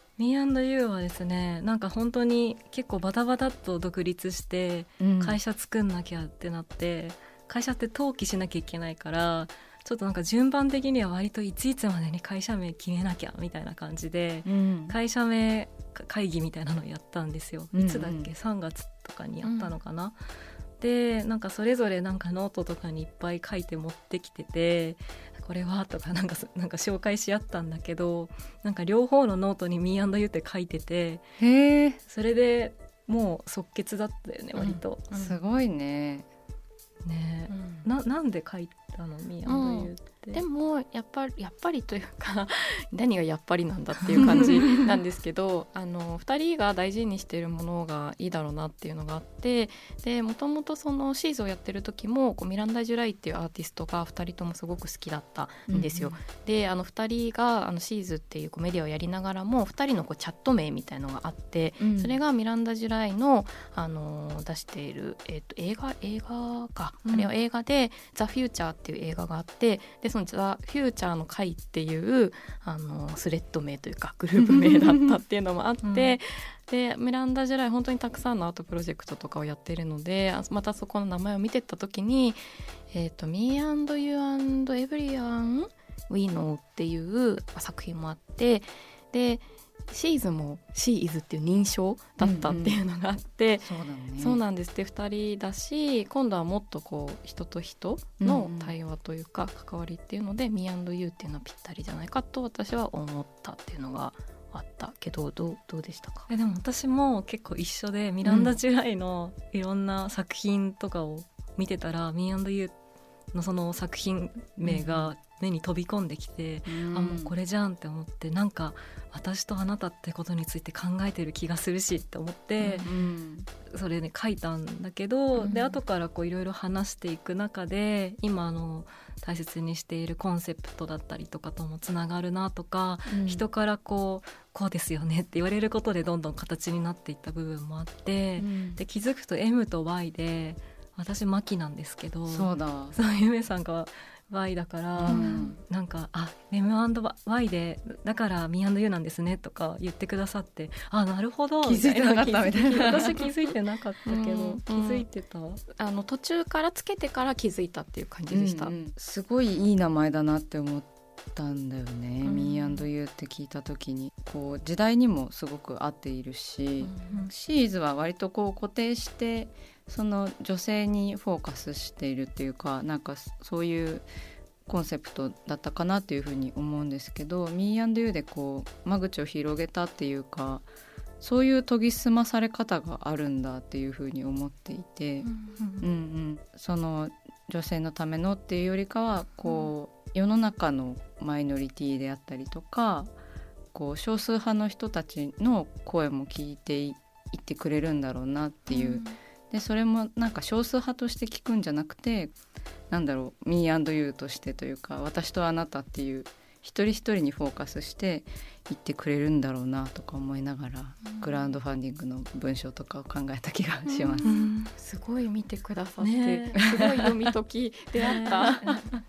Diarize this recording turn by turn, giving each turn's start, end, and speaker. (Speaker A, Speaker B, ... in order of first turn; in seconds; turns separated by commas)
Speaker A: 0.2-20.2, Speaker B: 5.0-5.4, Speaker B: 14.4-14.9, Speaker B: 17.7-18.3, Speaker C: 19.4-19.7, Speaker A: 20.8-31.2, Speaker B: 31.4-32.0, Speaker A: 32.0-35.1, Speaker C: 34.6-35.4, Speaker B: 35.1-36.3, Speaker A: 37.0-40.4, Speaker C: 37.5-37.8, Speaker C: 39.5-106.3, Speaker A: 44.1-44.5, Speaker B: 55.7-56.2, Speaker B: 61.8-62.2, Speaker B: 74.4-75.1, Speaker A: 75.8-76.2, Speaker B: 92.2-92.8, Speaker B: 93.6-94.4, Speaker B: 98.2-98.7, Speaker A: 106.3-112.7, Speaker B: 108.2-108.5, Speaker A: 113.3-122.9, Speaker B: 114.6-115.1, Speaker B: 116.7-117.3, Speaker B: 122.6-123.5, Speaker A: 123.7-155.6, Speaker C: 125.4-125.8, Speaker B: 133.1-133.4, Speaker B: 138.4-138.8, Speaker B: 142.3-142.9, Speaker B: 145.0-145.6, Speaker C: 145.1-145.5, Speaker B: 151.6-153.1, Speaker C: 154.1-155.1, Speaker C: 155.7-158.8, Speaker B: 158.3-174.1, Speaker C: 166.8-167.1, Speaker B: 174.7-180.7, Speaker B: 181.2-193.1, Speaker C: 185.2-185.6, Speaker A: 185.6-185.9, Speaker B: 193.7-202.3, Speaker C: 198.7-199.1, Speaker B: 202.9-214.3, Speaker C: 211.0-211.5, Speaker C: 213.8-218.9, Speaker A: 214.2-214.7, Speaker A: 216.0-216.8, Speaker B: 216.6-216.9, Speaker A: 218.0-218.8